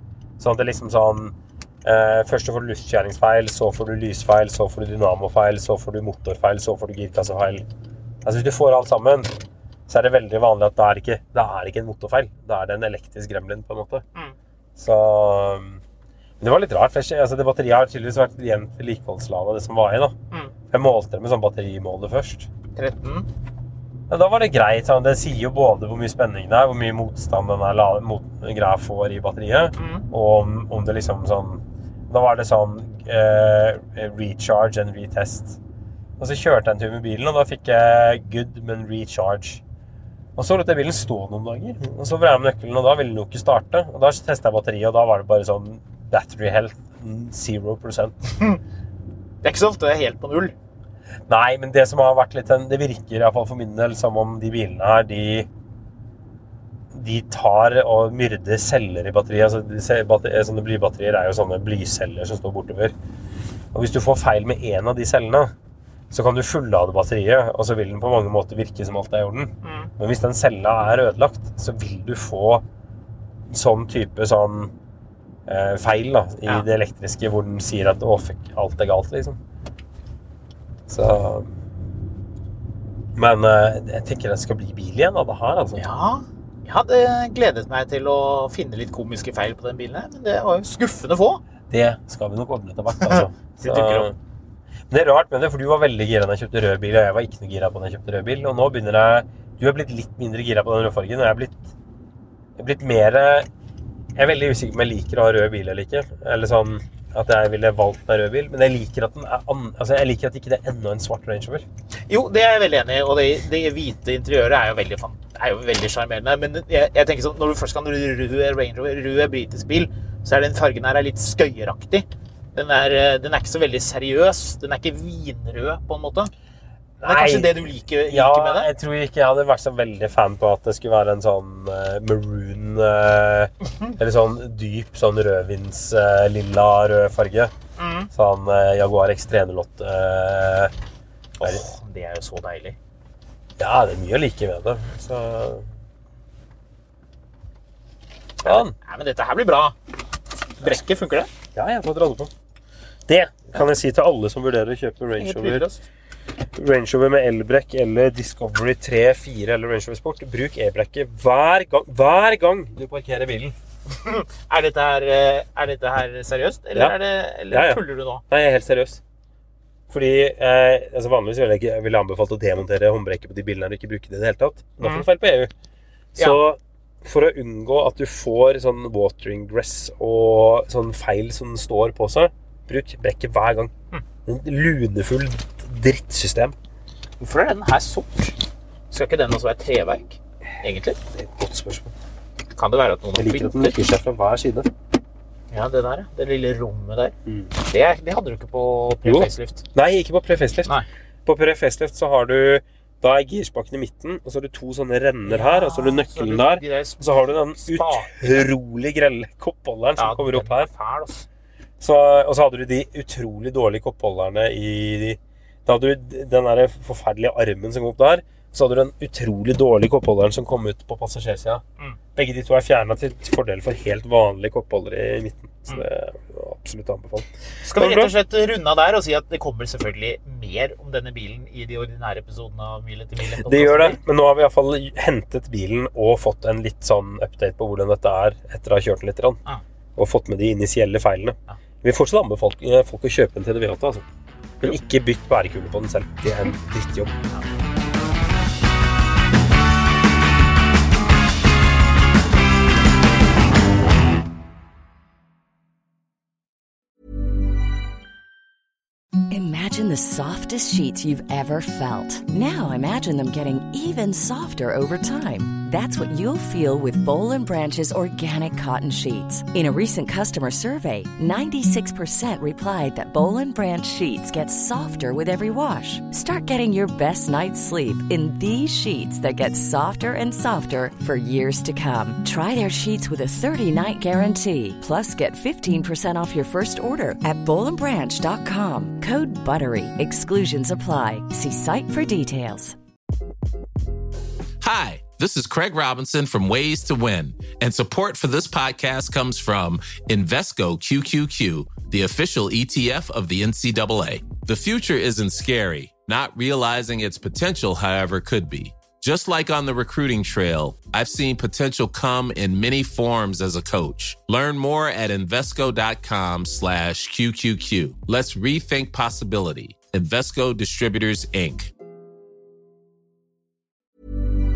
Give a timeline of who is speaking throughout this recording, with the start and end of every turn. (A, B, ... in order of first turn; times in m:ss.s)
0:00.4-0:07.6 A
0:08.2-0:09.3 A
0:09.9-0:14.0 A
0:14.8-0:15.8 A
0:16.4-0:20.1 A
0:20.7-0:22.5 A
0:22.7-0:23.3 B
0:24.1-0:35.6 A
0:29.8-0:30.0 B
0:36.2-0:39.6 A
0:40.4-0:48.2 A
0:49.4-0:50.5 B
0:51.3-0:55.5 A
0:56.9-1:02.9 A
1:03.7-1:05.5 A
1:06.1-1:12.6 A
1:09.6-1:09.9 B
1:13.5-1:14.7 A
1:15.5-1:19.4 A
1:20.9-1:21.5 A
1:23.2-1:25.8 A
1:25.8-1:31.4 B
1:31.7-1:34.1 A
1:33.0-1:34.1 B
1:34.9-1:41.7 A
1:42.6-1:43.5 A
1:44.2-1:51.6 A
1:52.1-2:06.3 B
2:07.0-2:17.5 A
2:07.0-2:08.7 B
2:17.8-2:18.1 B
2:18.1-2:20.7 A
2:21.4-2:22.8 B
2:23.6-2:25.7 A
2:28.4-2:28.8 A
2:28.4-2:29.7 B
2:30.6-2:31.3 B
2:31.5-2:32.3 A
2:33.1-2:35.7 A
2:35.2-2:35.8 B
2:36.6-2:43.5 A
2:44.0-2:48.2 B
2:47.5-2:49.0 A
2:49.9-2:55.5 A
2:54.8-2:55.1 B
2:56.1-3:03.7 A
2:56.2-2:56.4 B
3:04.2-3:06.5 A
3:07.2-3:08.4 B
3:08.9-3:11.0 B
3:11.0-3:11.9 A
3:12.5-3:13.8 B
3:13.1-3:14.7 A
3:15.5-3:19.6 B
3:17.2-3:17.5 A
3:19.0-3:30.7 A
3:25.2-3:28.5 B
3:30.0-3:31.3 B
3:31.8-3:41.6 A
3:42.1-3:48.1 A
3:47.6-3:54.0 B
3:53.4-3:59.4 A
4:00.0-4:04.0 A
4:04.6-4:07.1 A
4:19.3-4:52.8 C
4:54.6-5:21.7 D